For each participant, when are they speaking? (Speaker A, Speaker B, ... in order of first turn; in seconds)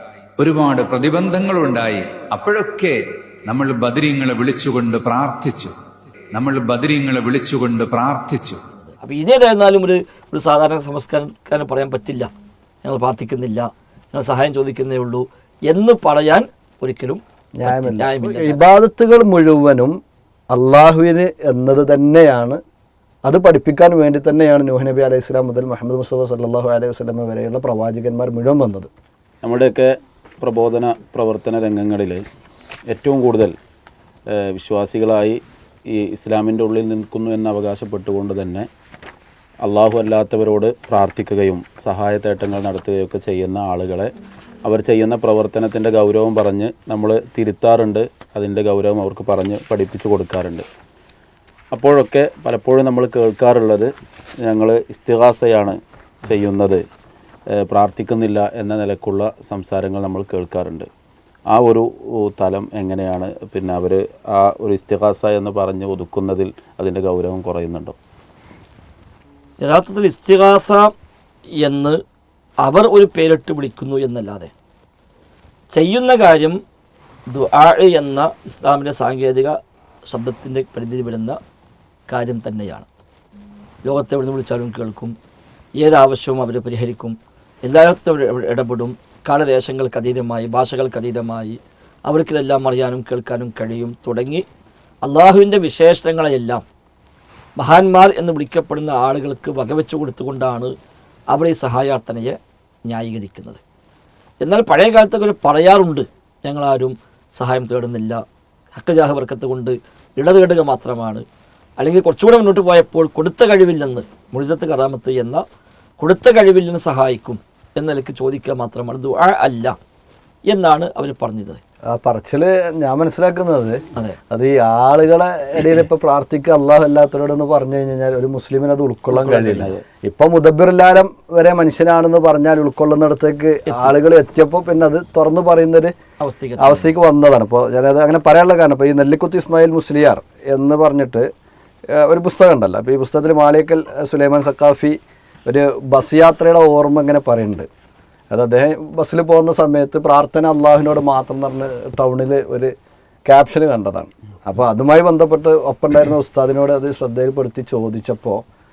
Speaker A: 0.4-5.8, 6.3-8.6
Speaker B: 9.0-12.3, 12.8-18.6, 69.6-70.9, 71.6-72.0, 72.6-74.5, 75.7-76.6, 77.3-81.4, 82.1-82.9, 83.8-85.1, 85.8-94.4, 95.0-96.6, 97.6-100.7, 101.3-103.6, 104.4-108.2, 108.7-111.2, 111.8-115.4, 116.0-119.7, 120.5-121.6, 129.1-129.7, 136.2-136.9
Speaker C: 17.6-19.9, 20.5-22.6, 23.2-28.9, 121.9-135.9, 136.6-141.3, 141.9-147.7, 148.3-152.7, 153.2-158.4
Speaker D: 29.4-29.9, 30.4-32.2, 32.9-33.5, 34.5-35.4, 35.9-38.7, 39.6-44.1, 44.6-50.6, 51.7-53.9, 54.5-56.8, 57.6-60.9, 61.5-68.0, 129.5-129.8